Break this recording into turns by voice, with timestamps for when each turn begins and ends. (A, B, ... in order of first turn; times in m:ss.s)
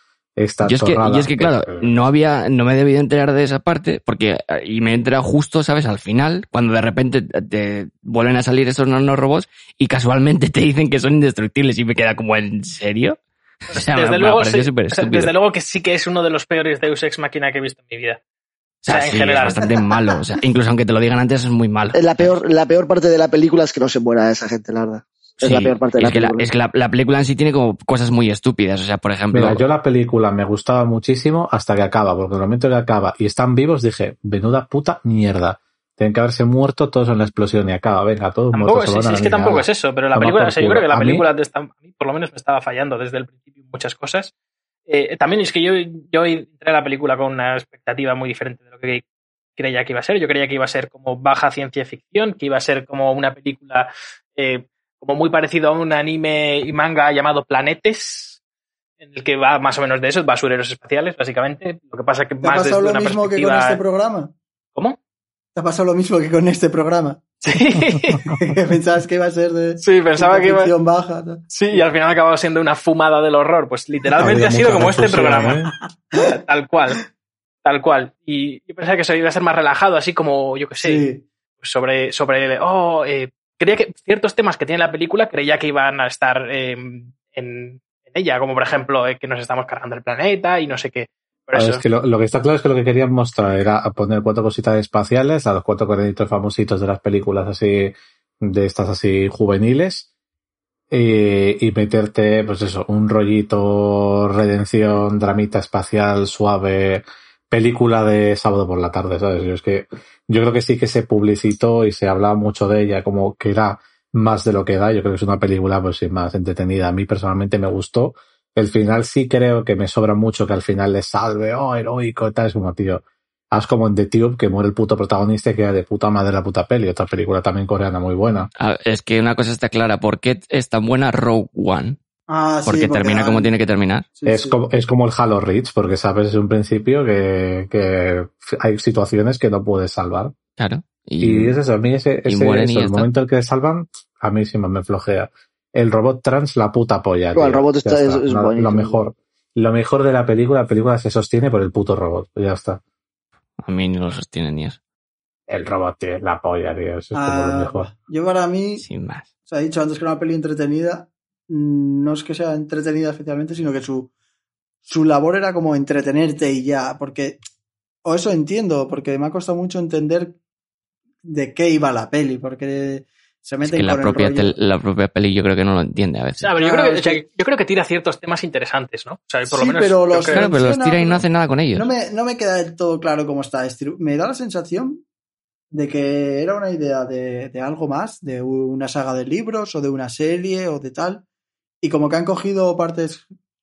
0:00.4-0:02.1 A
0:00.6-0:13.2 B
0:13.7-0:15.3 B
0:13.7-0:18.2 C
0:18.8-0:22.4 B
0:18.9-0:19.7 C
0:21.9-0:26.5 D
0:25.4-0:29.6 B
0:29.3-0:41.3 A
0:38.5-0:44.3 C
0:44.9-0:49.0 C
0:49.6-0:58.4 C
0:59.0-1:03.8 C
1:02.4-1:04.3 E
1:05.6-1:07.2 E
1:07.4-1:08.2 C
1:08.3-1:11.8 E
1:09.8-1:10.7 C
1:11.5-1:15.6 C
1:14.2-1:15.7 A
1:16.1-1:17.0 C
1:17.6-1:21.0 C
1:20.8-1:21.2 E
1:21.6-1:31.8 C
1:31.5-1:40.1 A
1:40.9-2:08.5 A
2:08.6-2:12.0 B
2:12.3-2:13.5 E
2:12.6-2:14.1 B
2:14.2-2:14.6 E
2:14.2-2:20.4 A
2:20.6-2:21.6 B
2:21.2-2:32.8 A
2:22.3-2:23.1 B
2:27.3-2:29.0 D
2:33.6-2:34.8 B
2:35.5-2:37.9 A
2:37.1-2:38.8 E
2:38.8-2:39.3 B
2:39.5-2:44.1 E
2:44.8-2:47.4 E
2:48.0-2:50.4 E
2:51.2-2:54.6 E
2:53.6-2:56.5 B
2:56.4-3:00.5 C
2:56.6-2:57.2 E
2:59.4-3:05.0 E
3:00.3-3:01.9 B
3:05.7-3:11.2 E
3:11.8-3:13.2 E